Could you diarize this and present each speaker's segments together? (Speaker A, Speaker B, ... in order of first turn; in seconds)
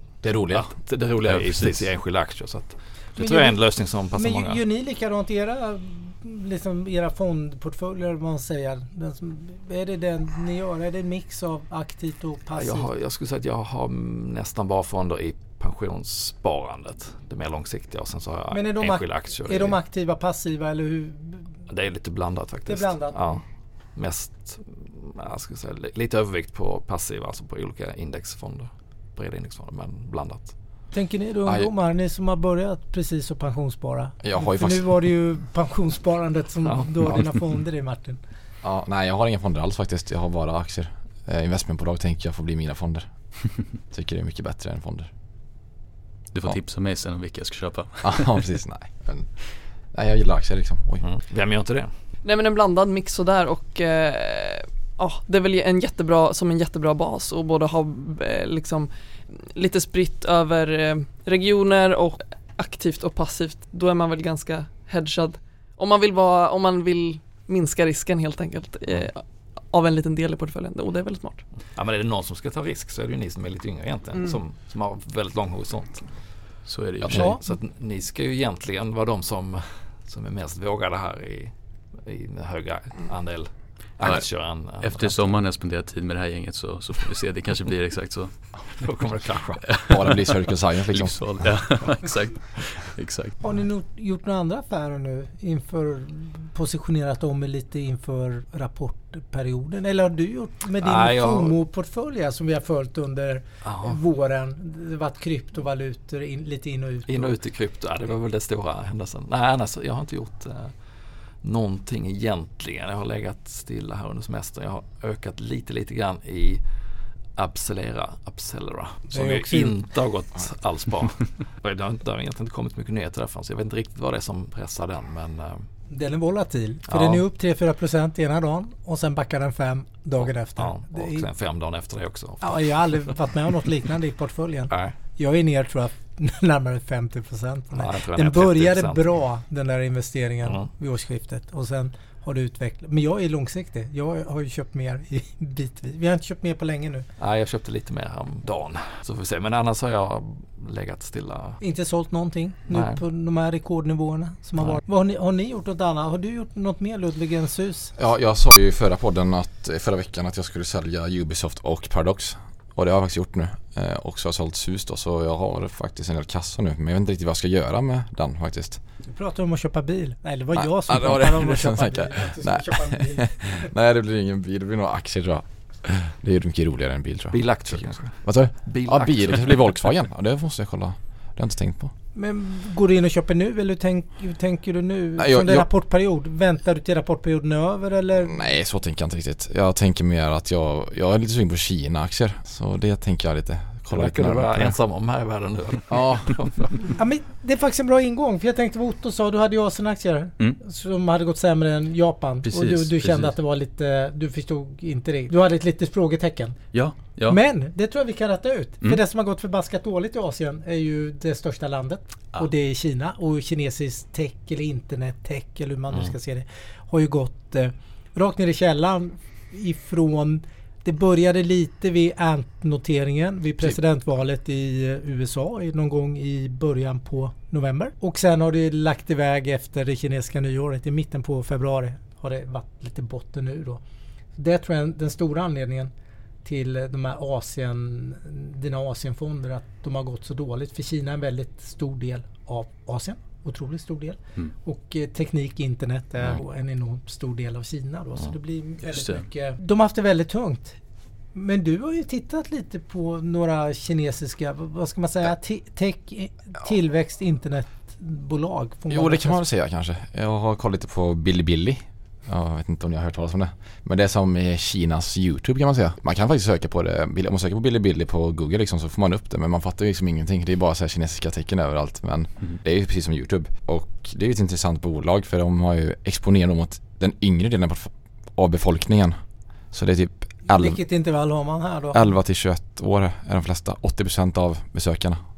Speaker A: 0.2-0.7, 34.2-35.1, 38.6-45.1, 48.0-51.1, 89.8-91.8, 158.0-168.8, 170.5-181.9, 185.2-185.7, 188.3-194.8, 195.9-196.3, 258.9-279.2, 279.7-280.8, 281.9-285.2
Speaker B: 0.5-4.6, 12.6-19.8, 21.7-23.4, 23.9-30.6, 36.6-37.4, 51.0-51.9, 71.6-76.4, 77.0-85.4, 88.8-89.8, 100.8-101.6, 103.6-104.0, 107.1-110.8, 111.4-116.6, 117.3-125.7, 126.9-127.2, 130.6-133.1, 134.7-135.0, 137.7-139.0, 147.2-151.6, 152.7-153.0, 177.3-179.6, 193.9-196.9
Speaker C: 1.2-1.9, 46.3-48.5, 76.7-77.4, 84.0-88.8, 89.7-93.4, 202.5-203.3, 206.7-207.4, 248.9-249.3
Speaker D: 3.1-12.9, 18.5-21.4, 22.6-23.4, 30.9-38.2, 77.1-77.4, 93.4-107.3, 119.1-119.8, 125.9-131.3, 132.4-147.1, 151.6-157.9, 169.1-173.7, 182.1-188.5, 197.0-233.8, 234.4-235.9, 236.4-250.8, 251.3-259.4, 280.4-282.0
Speaker E: 52.2-71.5